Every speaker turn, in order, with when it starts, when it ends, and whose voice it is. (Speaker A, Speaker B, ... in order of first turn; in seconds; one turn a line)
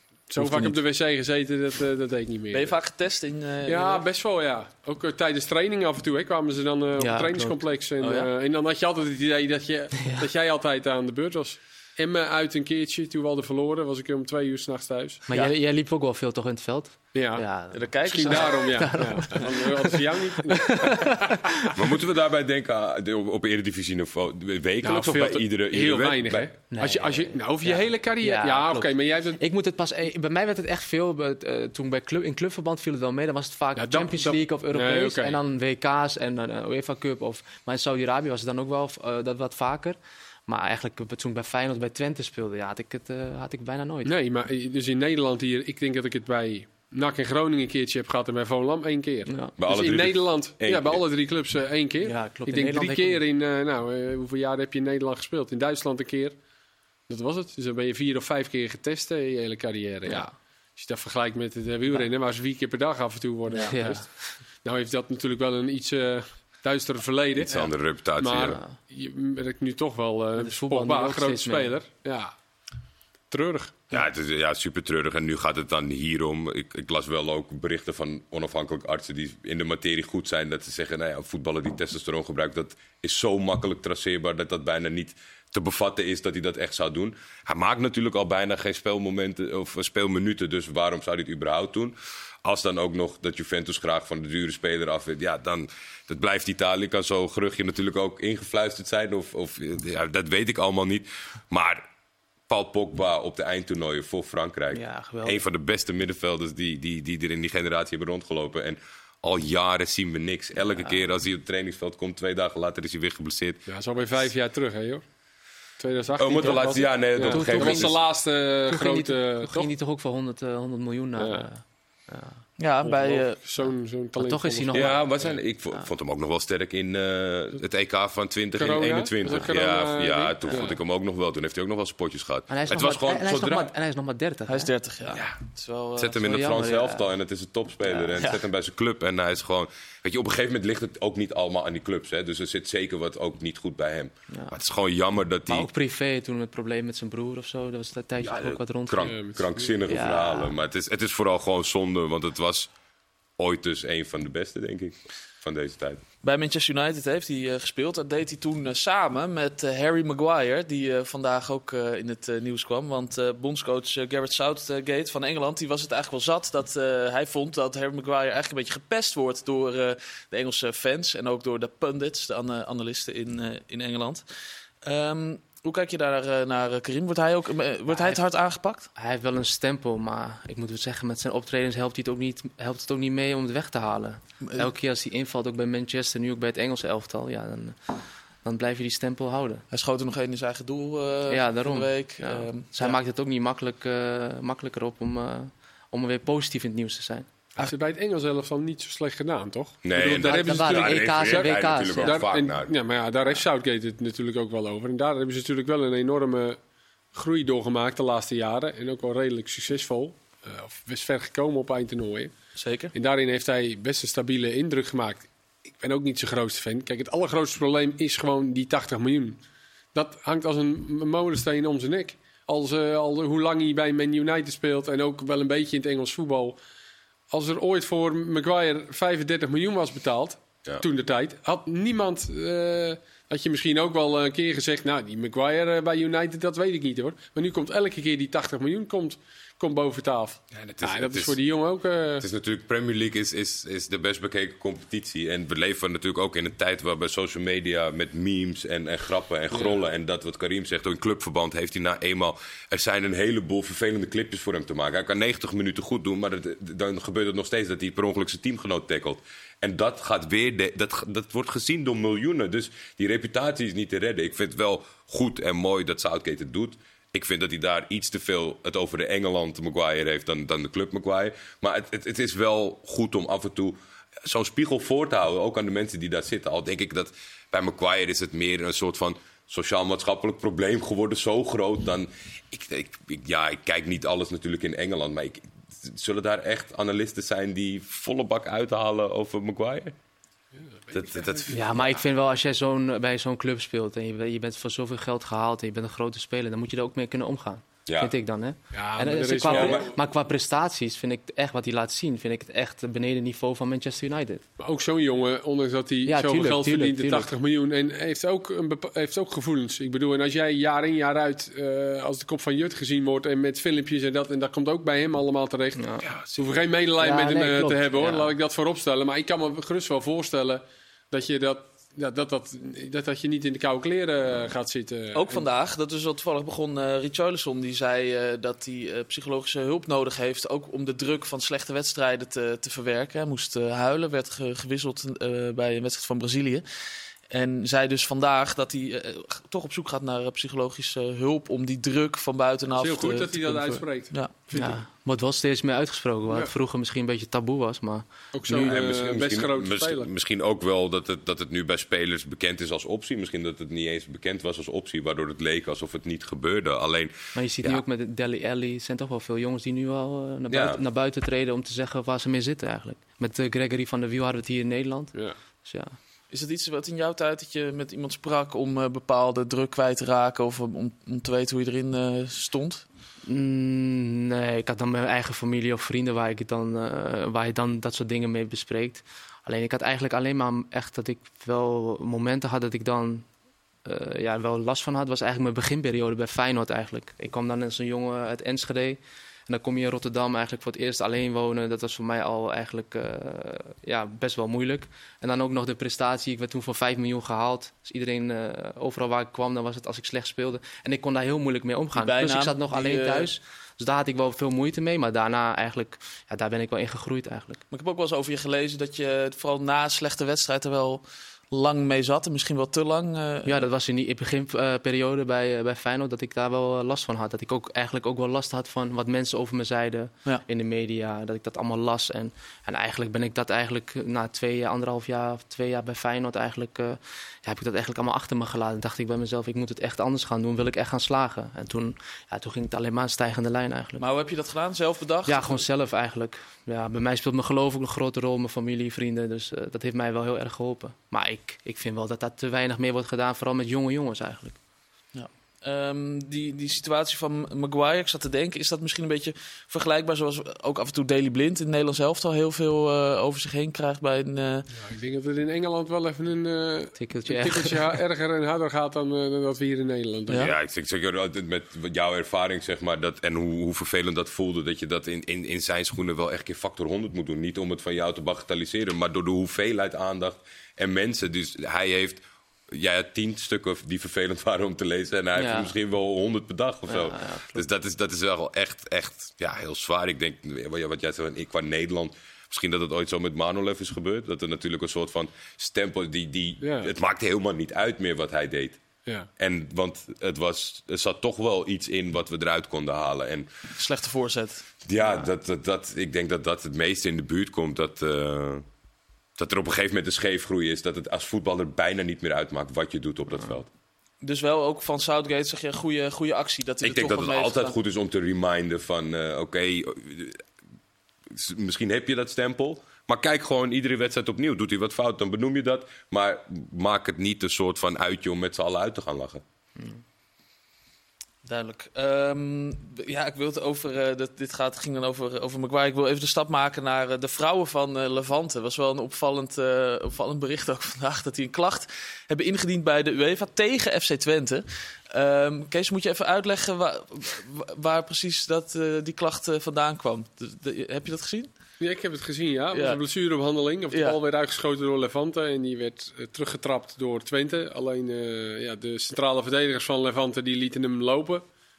Speaker A: 0.3-2.7
Speaker B: 0.4-0.8
Speaker C: 2.5-4.0
Speaker A: 3.6-15.5
Speaker B: 7.0-7.6
Speaker C: 8.0-8.3
Speaker B: 15.3-21.8
Speaker A: 17.1-17.4
Speaker C: 17.7-18.9
Speaker A: 18.0-21.7
Speaker D: 21.7-26.5
Speaker A: 24.8-29.4
Speaker B: 26.7-44.1
Speaker A: 33.8-35.4
Speaker A: 44.0-56.4
Speaker D: 49.6-51.0
Speaker B: 52.0-53.2
Speaker A: 57.1-72.3
Speaker B: 63.5-64.1
Speaker D: 67.4-68.6
Speaker B: 68.4-68.7
Speaker B: 70.4-71.7
Speaker A: 73.3-73.8
Speaker D: 73.9-101.9
Speaker D: 102.5-113.6
Speaker B: 104.7-105.4
Speaker A: 113.7-115.0
Speaker A: 115.8-119.7
Speaker D: 116.2-117.9
Speaker B: 116.4-118.0
Speaker B: 118.7-122.4
Speaker A: 121.2-121.5
Speaker C: 122.6-123.4
Speaker A: 122.8-125.4
Speaker B: 124.2-125.1
Speaker D: 124.7-133.7
Speaker A: 128.6-130.7
Speaker B: 132.5-134.7
Speaker C: 134.5-136.2
Speaker D: 135.1-135.4
Speaker D: 136.0-145.7
Speaker B: 136.2-137.0
Speaker B: 145.5-149.2
Speaker D: 148.2-152.7
Speaker A: 149.0-149.7
Speaker B: 149.8-150.5
Speaker D: 153.4-156.0
Speaker C: 156.2-174.2
Speaker C: 174.8-178.9
Speaker B: 177.9-178.2
Speaker B: 178.9-187.9
Speaker B: 188.4-189.6
Speaker C: 189.7-193.0
Speaker B: 191.3-197.3
Speaker A: 197.6-206.6
Speaker D: 199.8-202.7
Speaker B: 200.0-202.2
Speaker A: 207.1-212.3
Speaker C: 212.6-212.9
Speaker A: 212.9-219.4
Speaker A: 219.9-226.6
Speaker A: 227.3-242.2
Speaker D: 240.5-241.4
Speaker D: 242.2-289.9
Speaker A: 249.5-249.8
Speaker A: 290.5-291.6
Speaker D: 290.9-292.0
Speaker B: 291.5-304.4
Speaker D: 297.9-298.1
Speaker A: 298.7-299.9
Speaker D: 299.5-299.9
Speaker A: 304.6-315.8
Speaker B: 306.1-307.3
Speaker B: 315.8-316.1
Speaker D: 316.0-316.4
Speaker A: 316.3-325.4
Speaker B: 317.0-318.3
Speaker C: 325.1-336.6
Speaker C: 337.3-344.3
Speaker A: 342.8-344.8
Speaker B: 344.5-348.8
Speaker A: 346.3-346.5
Speaker A: 348.3-350.1
Speaker D: 348.5-357.8
Speaker B: 357.3-365.9
Speaker D: 360.5-360.8
Speaker C: 366.3-372.9
Speaker B: 373.2-383.3
Speaker B: 383.8-407.6
Speaker C: 401.9-403.3
Speaker C: 407.7-413.6
Speaker B: 413.4-434.0
Speaker C: 434.0-435.6
Speaker B: 435.3-444.6
Speaker C: 445.1-454.7
Speaker A: 454.8-460.5
Speaker B: 457.0-457.8
Speaker D: 460.4-488.8
Speaker B: 475.4-475.7
Speaker B: 476.9-477.6
Speaker A: 486.6-486.9
Speaker D: 489.4-493.5
Speaker C: 493.7-494.7
Speaker D: 494.8-498.6
Speaker D: 499.4-503.7
Speaker C: 504.2-507.7
Speaker D: 506.8-510.4
Speaker D: 511.3-519.4
Speaker C: 521.4-541.5
Speaker A: 541.8-551.4
Speaker C: 542.7-543.0
Speaker C: 543.9-544.2